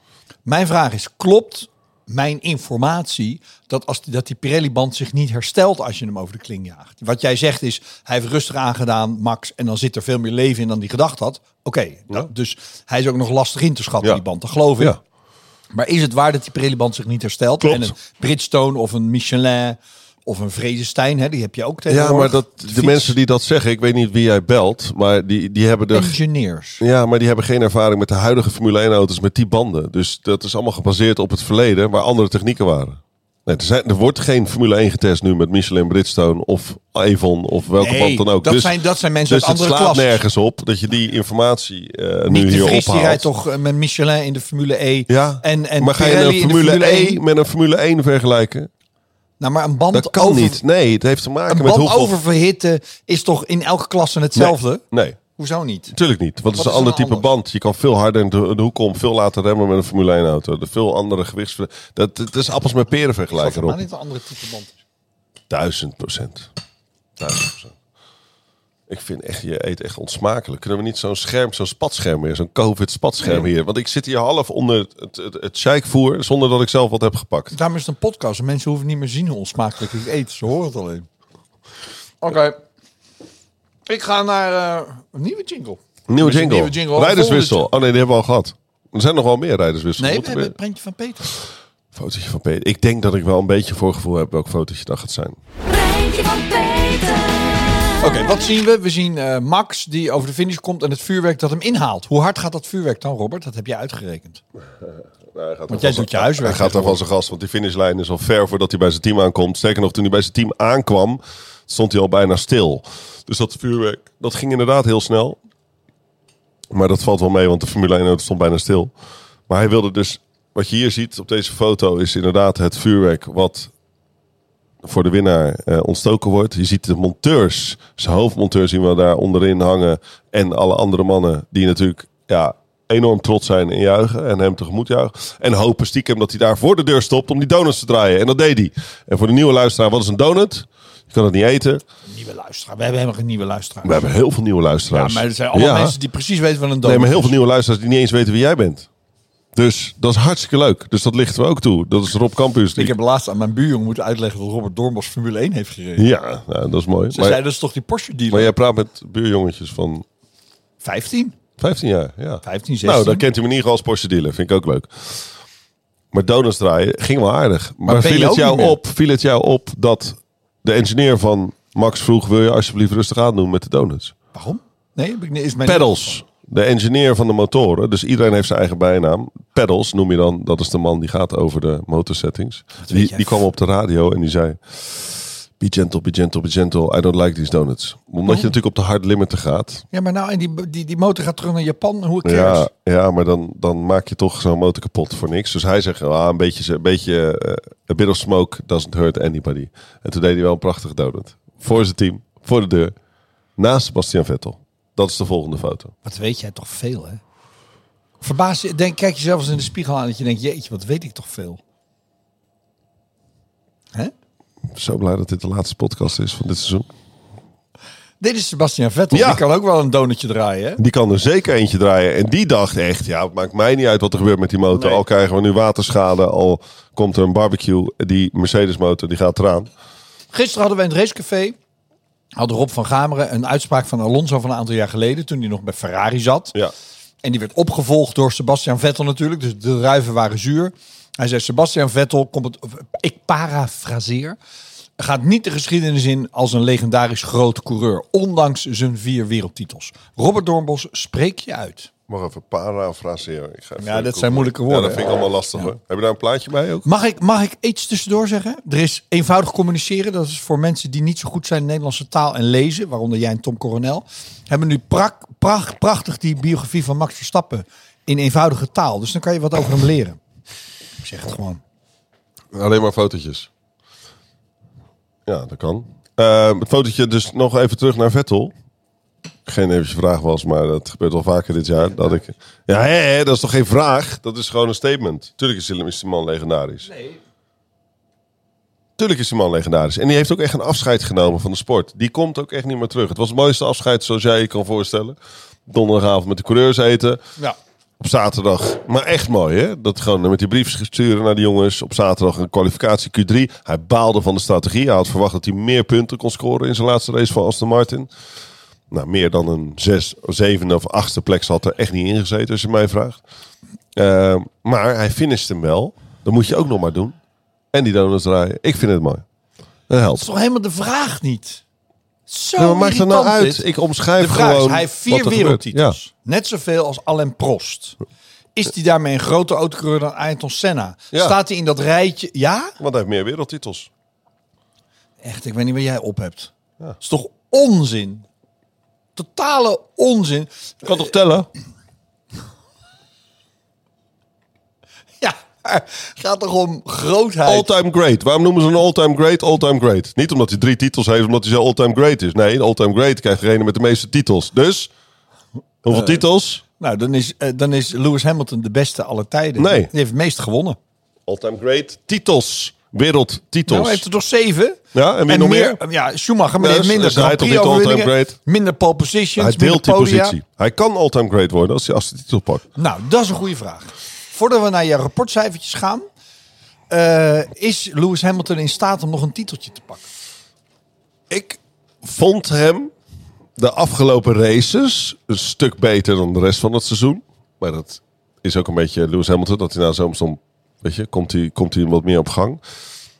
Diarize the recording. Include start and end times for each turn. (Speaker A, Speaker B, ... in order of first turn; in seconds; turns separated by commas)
Speaker A: 0.5-14.9, Speaker A: 15.7-23.2, Speaker B: 17.6-17.9, Speaker B: 21.9-26.2, Speaker A: 25.9-26.8, Speaker B: 26.8-43.2, Speaker A: 37.8-40.2, Speaker A: 42.3-47.2, Speaker B: 45.1-48.7, Speaker A: 49.4-50.6, Speaker B: 49.9-52.1, Speaker A: 51.5-54.8, Speaker B: 54.4-55.2, Speaker A: 55.4-55.9, Speaker B: 55.9-63.8, Speaker A: 56.5-57.3, Speaker A: 63.3-64.8, Speaker B: 65.5-66.5, Speaker B: 67.2-67.8, Speaker B: 68.9-77.5, Speaker A: 77.5-81.0, Speaker A: 82.2-82.6, Speaker A: 83.9-87.7, Speaker B: 86.1-90.5, Speaker A: 90.0-91.3, Speaker B: 91.9-95.4, Speaker C: 95.7-98.0, Speaker A: 98.0-104.4, Speaker B: 104.8-115.4, Speaker A: 105.7-107.0, Speaker B: 116.7-118.9, Speaker B: 119.5-123.7, Speaker B: 124.8-141.8, Speaker A: 142.1-144.0, Speaker B: 143.8-145.9, Speaker A: 144.9-147.3, Speaker B: 146.8-148.9, Speaker B: 149.5-152.9, Speaker A: 152.8-156.1, Speaker B: 156.0-157.4, Speaker A: 157.1-158.5, Speaker B: 158.3-160.0, Speaker A: 160.8-161.4, Speaker B: 161.6-165.3, Speaker A: 162.4-163.2, Speaker B: 166.1-174.1, Speaker A: 167.8-168.8, Speaker A: 174.3-176.2, Speaker B: 175.6-189.8, Speaker A: 182.8-183.4, Speaker A: 189.9-192.7, Speaker B: 192.2-202.9, Speaker B: 203.6-205.9, Speaker A: 206.0-207.2, Speaker A: 208.2-211.6, Speaker B: 214.7-216.9, Speaker A: 218.2-220.8, Speaker B: 219.1-219.4, Speaker B: 220.8-229.7, Speaker A: 224.7-225.0, Speaker A: 230.3-231.6, Speaker A: 232.4-236.5, Speaker A: 237.2-244.4, Speaker A: 245.0-251.9, Speaker B: 252.1-256.9, Speaker A: 253.8-255.7, Speaker A: 256.8-270.2, Speaker A: 271.0-271.6, Speaker B: 272.5-273.5, Speaker B: 275.2-278.5, Speaker B: 279.4-286.9, Speaker A: 286.9-287.2, Speaker B: 289.0-297.2, Speaker B: 298.0-308.1, Speaker B: 308.9-313.2, Speaker B: 313.9-317.2, Speaker B: 317.7-319.2, Speaker B: 319.9-320.2, Speaker A: 320.1-321.6, Speaker A: 322.3-323.6, Speaker B: 322.6-325.9, Speaker A: 324.2-328.0, Speaker A: 328.5-332.7, Speaker B: 332.8-333.9, Speaker A: 335.2-338.2, Speaker A: 339.1-341.0, Speaker B: 340.8-341.5, Speaker A: 345.2-347.7, Speaker B: 347.4-354.9, Speaker B: 355.9-356.6, Speaker A: 355.9-356.2, Speaker A: 356.8-360.8, Speaker B: 359.6-359.9, Speaker B: 361.3-364.0, Speaker A: 363.6-370.4, Speaker B: 364.9-365.8, Speaker B: 366.6-368.4, Speaker B: 369.4-372.6, Speaker A: 372.8-376.1, Speaker A: 376.9-380.1, Speaker B: 381.3-382.9, Speaker B: 383.6-392.6